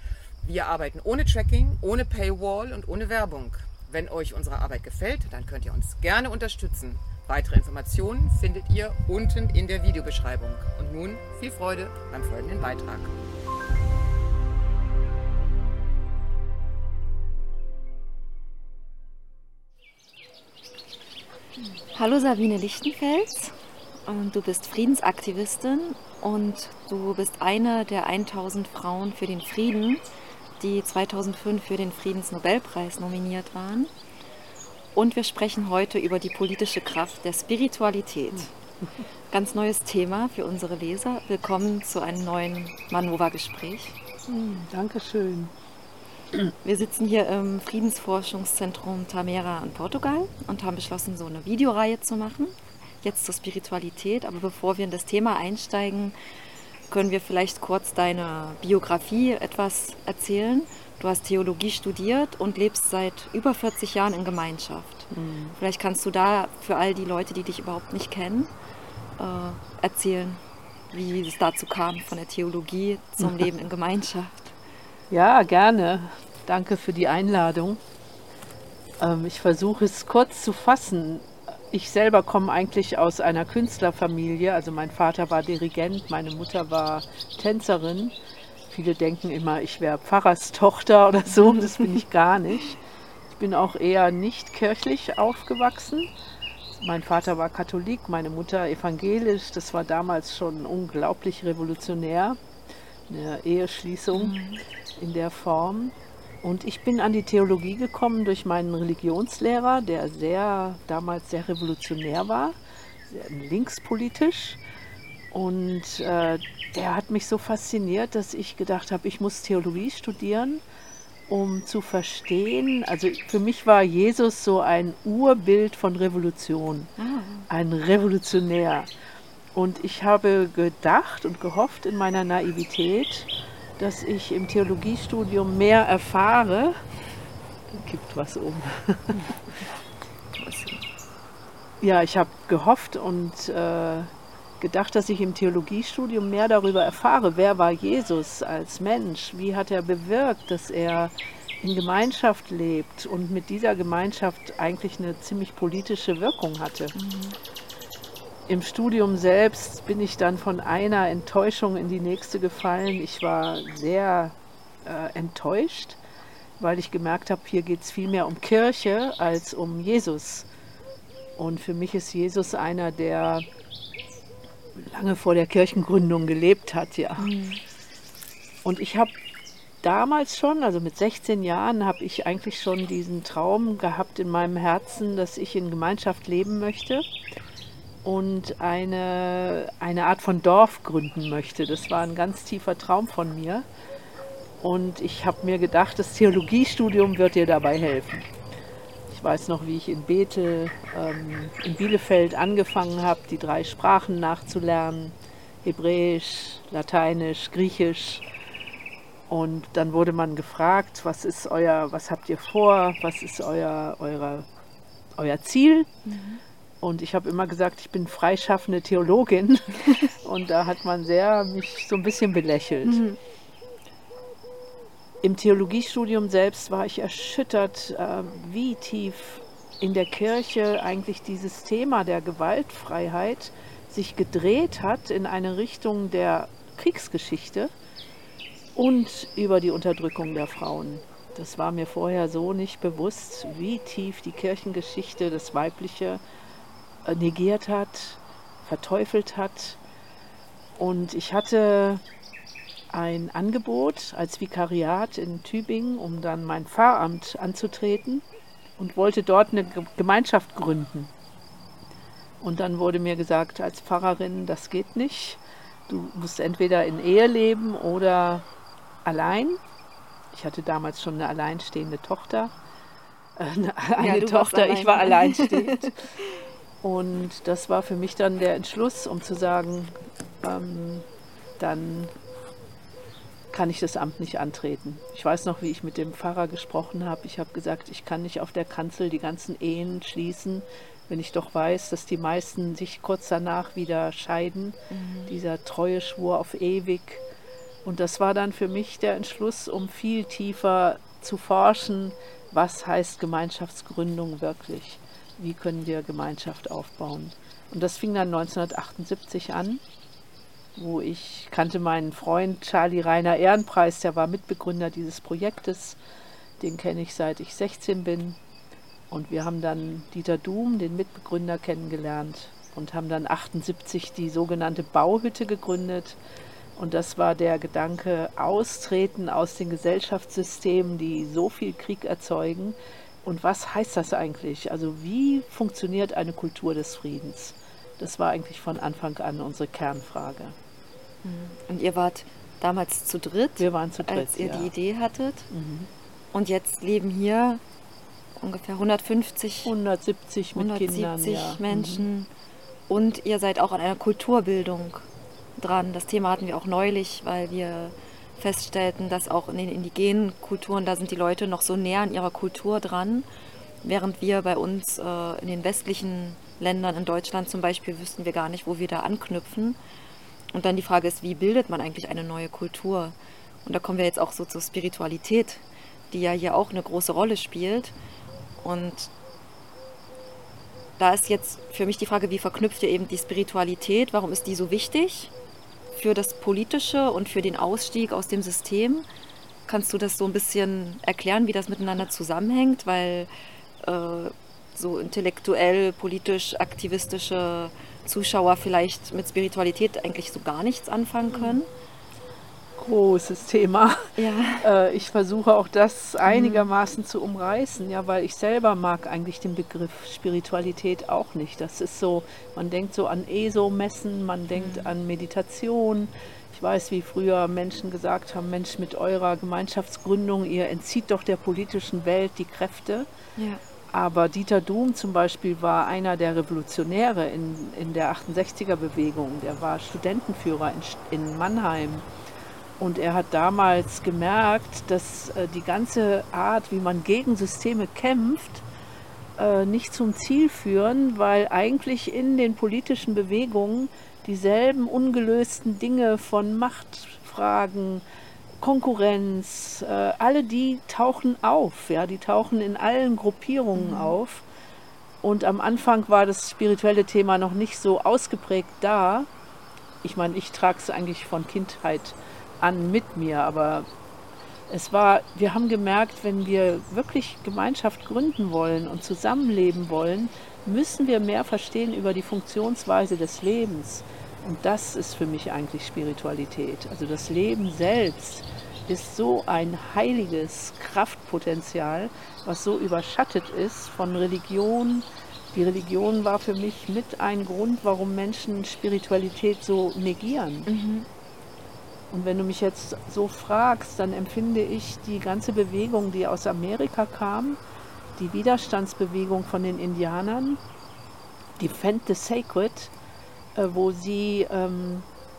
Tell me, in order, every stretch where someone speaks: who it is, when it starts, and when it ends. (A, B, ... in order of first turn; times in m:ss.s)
0:00.4-0:13.1 A
0:21.9-0:23.5 B
0:24.0-0:30.0 B
0:30.6-0:33.9 B
0:34.9-0:38.5 B
0:39.3-0:44.0 B
0:44.3-0:45.5 C
0:46.6-0:56.1 B
0:56.9-1:08.5 B
1:05.1-1:05.6 C
1:09.2-1:14.5 B
1:13.2-1:13.5 C
1:15.1-1:17.8 C
1:19.0-1:28.1 C
1:28.7-1:36.1 C
1:31.4-1:32.0 B
1:36.8-1:42.4 C
1:43.1-1:44.3 C
1:44.1-1:44.6 B
1:45.0-1:52.6 C
1:53.1-1:54.6 C
1:55.3-2:00.6 C
2:01.3-2:06.9 C
2:07.0-2:07.5 B
2:07.5-2:08.9 C
2:09.5-2:16.8 C
2:17.7-2:19.3 C
2:20.3-2:20.8 B
2:21.8-2:36.9 C
2:36.9-2:37.4 B
2:38.5-2:46.0 C
2:46.6-2:50.5 C
2:51.4-2:53.4 C
2:54.8-2:57.3 C
2:57.2-2:57.6 B
2:58.6-2:59.1 C
2:59.8-3:07.0 C
3:08.0-3:13.6 C
3:14.6-3:18.3 C
3:19.1-3:28.2 C
3:29.3-3:34.5 C
3:35.2-3:35.9 C
3:36.0-3:36.4 B
3:36.8-3:43.0 C
3:42.8-3:43.2 B
3:45.2-3:57.7 C
3:58.8-4:06.2 C
4:07.0-4:09.8 C
4:10.8-4:12.0 C
4:12.9-4:18.2 C
4:18.8-4:21.1 C
4:22.4-4:28.4 C
4:29.0-4:29.6 C
4:30.3-4:32.5 C
4:33.4-4:36.0 C
4:34.0-4:35.7 B
4:36.8-4:41.0 C
4:41.6-4:42.1 C
4:43.5-4:57.2 C
4:54.9-4:55.3 B
4:57.8-5:09.8 C
5:10.8-5:16.0 C
5:16.6-5:18.4 C
5:19.1-5:26.2 C
5:26.8-5:40.6 C
5:41.2-5:45.5 B
5:43.6-5:44.7 C
5:45.5-5:45.9 C
5:46.3-5:47.6 B
5:48.4-5:49.7 B
5:49.6-5:52.0 C
5:50.5-5:52.3 B
5:52.9-5:55.0 B
5:55.6-6:03.3 B
6:03.8-6:09.8 B
6:10.5-6:17.9 B
6:18.6-6:19.1 B
6:21.0-6:25.3 B
6:25.9-6:29.0 B
6:29.7-6:33.3 B
6:33.8-6:41.7 B
6:41.3-6:41.6 C
6:42.8-6:44.1 C
6:44.2-6:44.7 B
6:44.6-7:03.1 C
6:46.2-6:46.7 B
6:54.5-6:54.9 B
7:03.9-7:12.0 C
7:12.8-7:18.6 C
7:19.4-7:28.0 C
7:28.6-7:34.4 C
7:33.8-7:34.1 B
7:35.2-7:39.3 C
7:40.0-7:43.9 C
7:44.7-8:10.7 C
8:10.7-8:11.1 B
8:12.1-8:17.6 C
8:18.2-8:20.6 C
8:21.6-8:22.9 C
8:23.6-8:25.1 C